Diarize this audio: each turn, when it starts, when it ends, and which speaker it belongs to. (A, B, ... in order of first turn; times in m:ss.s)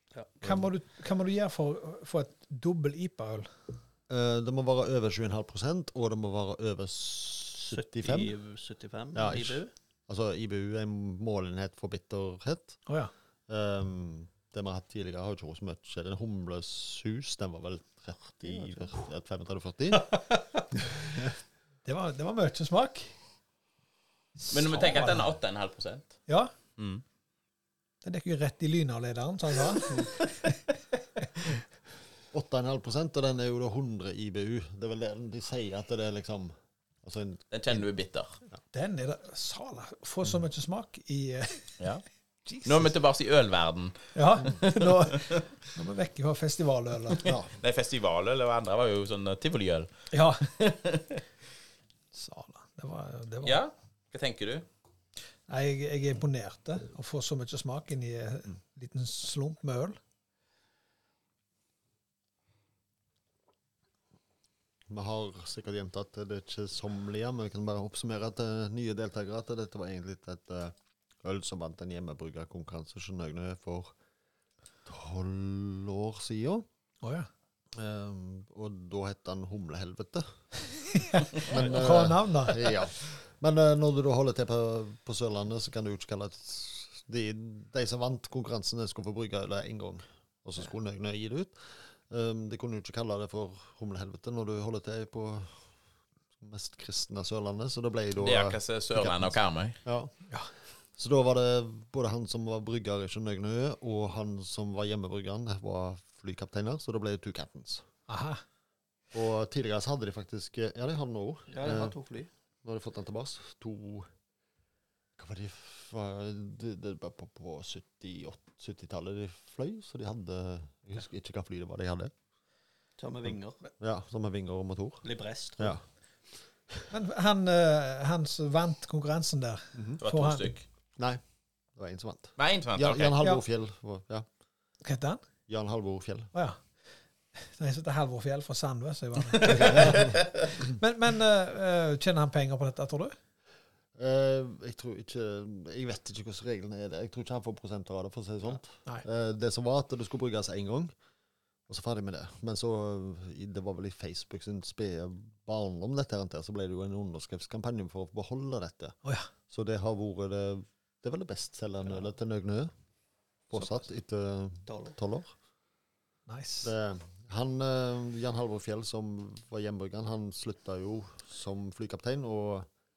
0:00.4-0:00.7 A
0:00.4-0:03.5 B
0:04.1-0:08.3 A
0:07.6-0:09.7 C
0:09.1-0:12.8 A
0:12.8-0:13.1 B
0:13.5-0:20.2 A
0:20.9-0:21.3 A
0:21.8-0:23.1 B
0:24.4-0:25.3 B
0:24.5-0:26.2 D
0:26.3-0:26.5 B
0:26.8-0:27.0 D
0:28.0-0:30.6 B
0:32.3-0:37.8 A
0:37.5-0:38.3 D
0:38.7-0:41.8 B
0:42.5-0:42.9 B
0:42.6-0:45.2 D
0:44.1-0:47.3 B
0:47.2-0:47.5 A
0:47.6-0:49.9 D
0:50.1-0:50.5 B
0:50.6-0:51.1 D
0:52.1-0:53.6 B
0:53.4-0:54.6 D
0:55.5-1:00.0 B
1:04.9-1:13.9 A
1:14.8-1:16.6 A
1:17.0-1:17.3 B
1:17.7-1:20.3 A
1:20.9-1:22.7 B
1:21.3-1:35.6 A
1:36.4-1:40.1 A
1:38.2-1:39.8 D
1:41.0-1:47.8 A
1:48.1-1:48.4 B
1:49.1-1:52.0 A
1:51.5-1:52.3 C
1:52.6-1:54.1 A
1:55.2-2:02.1 A
2:03.0-2:03.6 C
2:03.8-2:05.0 A
2:05.0-2:05.7 C
2:05.6-2:05.8 A
2:06.9-2:10.6 B
2:10.0-2:10.6 D
2:11.8-2:14.2 A
2:12.4-2:13.1 D
2:14.8-2:15.2 B
2:15.5-2:16.3 A
2:16.3-2:16.6 B
2:17.4-2:23.1 B
2:19.5-2:20.2 A
2:24.0-2:30.9 A
2:31.7-2:39.0 A
2:39.0-2:39.3 B
2:39.5-2:42.7 A
2:43.5-2:45.3 A
2:44.7-2:45.0 C
2:46.3-2:46.7 B
2:46.6-2:52.7 A